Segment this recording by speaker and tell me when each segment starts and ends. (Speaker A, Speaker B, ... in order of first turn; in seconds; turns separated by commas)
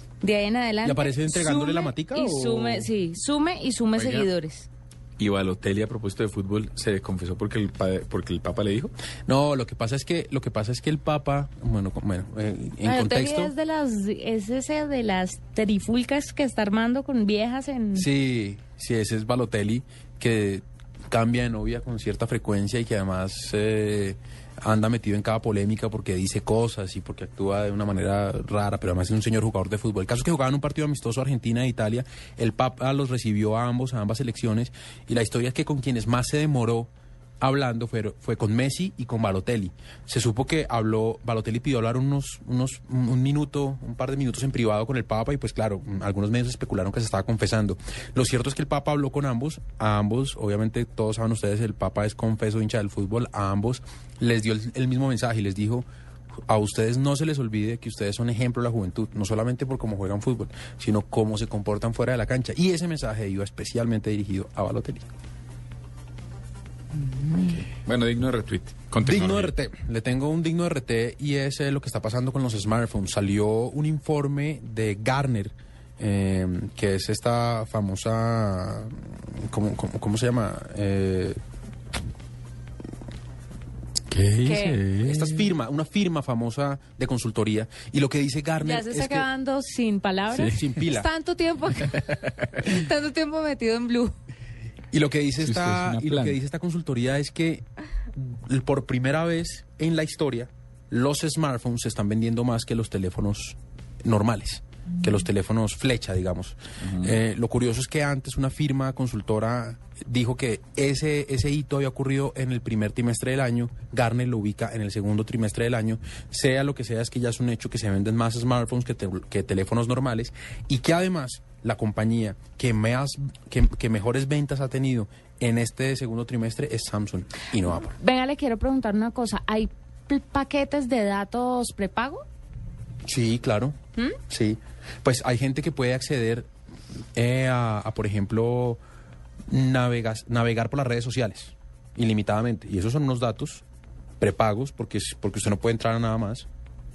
Speaker A: 0.2-4.7, Speaker B: 0.8-2.9, Speaker C: 4.0-4.3, Speaker C: 5.2-8.9, Speaker B: 9.3-13.5, Speaker A: 12.8-18.1, Speaker B: 17.9-36.9, Speaker B: 37.4-55.9, Speaker B: 56.5-65.1, Speaker A: 67.0-67.6, Speaker C: 67.4-69.5, Speaker B: 69.0-81.4, Speaker C: 84.1-85.5, Speaker A: 84.4-84.8, Speaker B: 85.0-89.3, Speaker A: 88.6-94.2, Speaker C: 90.3-90.7, Speaker B: 90.4-91.1, Speaker C: 91.8-92.6, Speaker B: 94.9-127.9, Speaker C: 95.4-96.4, Speaker C: 106.8-107.2, Speaker A: 127.7-132.2, Speaker B: 133.0-133.8, Speaker B: 134.3-136.5, Speaker B: 137.1-138.8, Speaker B: 139.5-143.6, Speaker B: 144.2-146.5